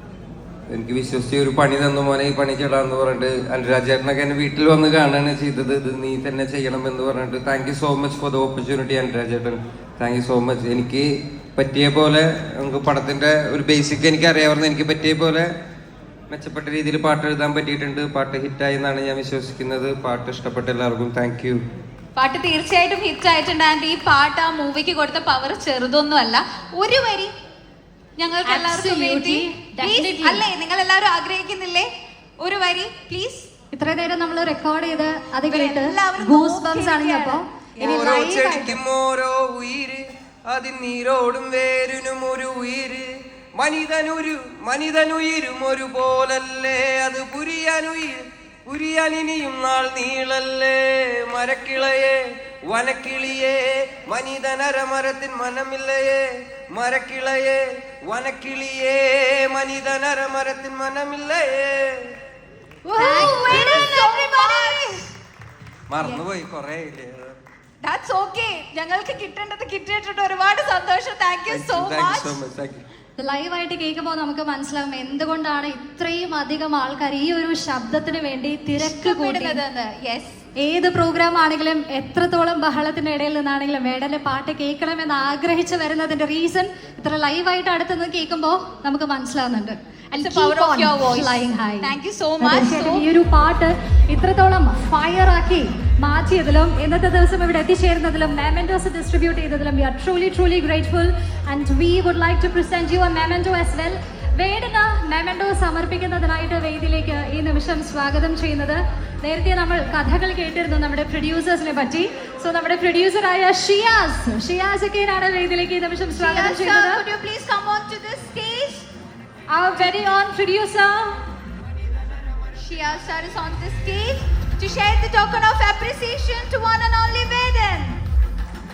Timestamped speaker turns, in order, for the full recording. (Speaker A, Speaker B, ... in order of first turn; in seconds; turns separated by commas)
Speaker A: 0.7-15.5, Speaker A: 16.3-21.6, Speaker B: 22.2-27.3, Speaker B: 28.2-31.9, Speaker C: 28.4-30.4, Speaker B: 32.4-33.5, Speaker C: 33.7-38.8, Speaker B: 35.5-38.2, Speaker A: 37.8-62.1, Speaker C: 62.9-65.0, Speaker B: 62.9-65.0, Speaker A: 63.1-64.0, Speaker A: 65.9-67.4, Speaker B: 66.0-66.2, Speaker B: 67.8-72.4, Speaker A: 71.5-72.8, Speaker C: 73.2-79.6, Speaker B: 78.8-80.4, Speaker C: 80.6-117.0, Speaker B: 90.1-93.1, Speaker B: 116.1-118.9, Speaker C: 119.5-121.2, Speaker B: 122.6-128.0